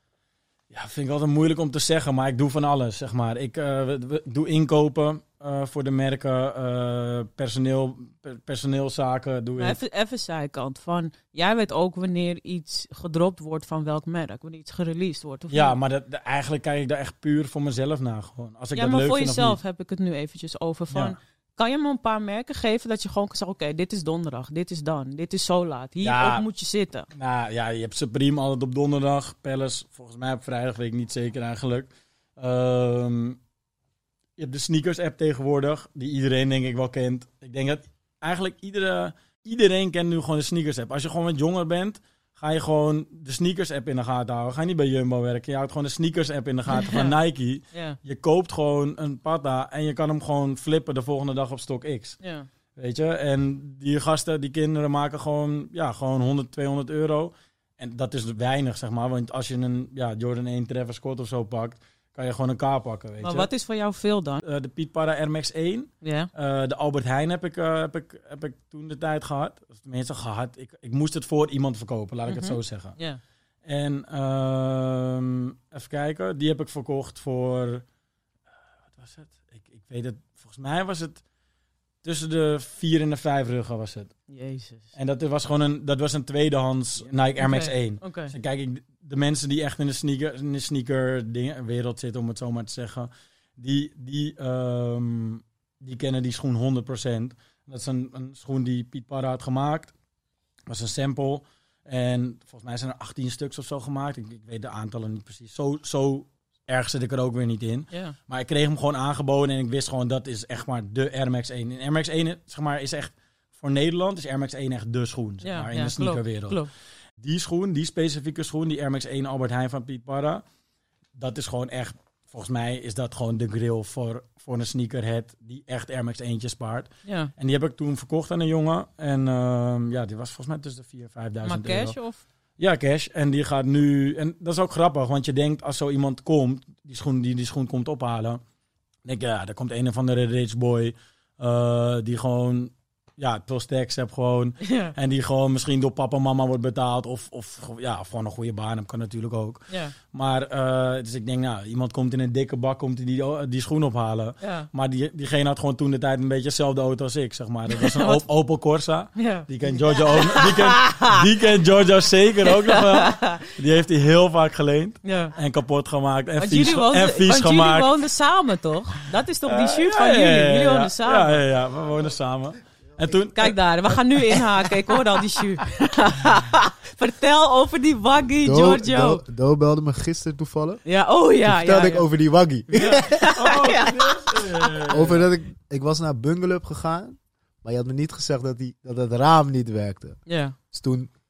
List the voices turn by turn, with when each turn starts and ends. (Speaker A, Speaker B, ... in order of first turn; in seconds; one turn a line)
Speaker A: 0.7-9.8
Speaker B: 9.6-15.8
Speaker A: 15.5-19.6
Speaker B: 18.8-27.1
Speaker A: 20.9-21.2
Speaker A: 26.0-26.4
Speaker A: 27.1-33.4
Speaker A: 34.4-52.2
Speaker B: 46.7-47.2
Speaker B: 47.7-48.0
Speaker B: 52.2-52.5
Speaker A: 52.8-63.5
Speaker B: 63.2-64.4
Speaker A: 64.4-73.0
Speaker B: 66.0-66.3
Speaker B: 72.3-73.2
Speaker A: 73.7-77.8
Speaker A: 78.9-81.2
Speaker A: 82.0-84.1
Speaker B: 84.3-84.9
Speaker A: 85.0-99.9
Speaker B: 87.4-88.3
Speaker A: 100.7-116.6
Speaker B: 115.4-116.7
Speaker A: 117.2-120.4
Speaker A: 121.2-132.0
Speaker B: 127.1-127.3
Speaker B: 131.4-132.2
Speaker A: 132.6-138.4
Speaker A: 139.1-167.9
Speaker B: 144.6-144.9
Speaker B: 149.7-149.9
Speaker B: 154.4-154.7
Speaker B: 157.7-158.2
Speaker B: 159.2-161.2
Speaker B: 162.4-163.5
Speaker B: 165.0-165.4
Speaker B: 166.4-171.4
Speaker A: 169.5-174.7
Speaker B: 173.3-179.2
Speaker C: 178.4-180.8
Speaker B: 180.8-182.1
Speaker C: 181.4-183.3
Speaker B: 182.7-184.8
Speaker A: 183.3-185.3
Speaker C: 184.9-190.2
Speaker B: 190.3-190.6
Speaker C: 190.7-191.1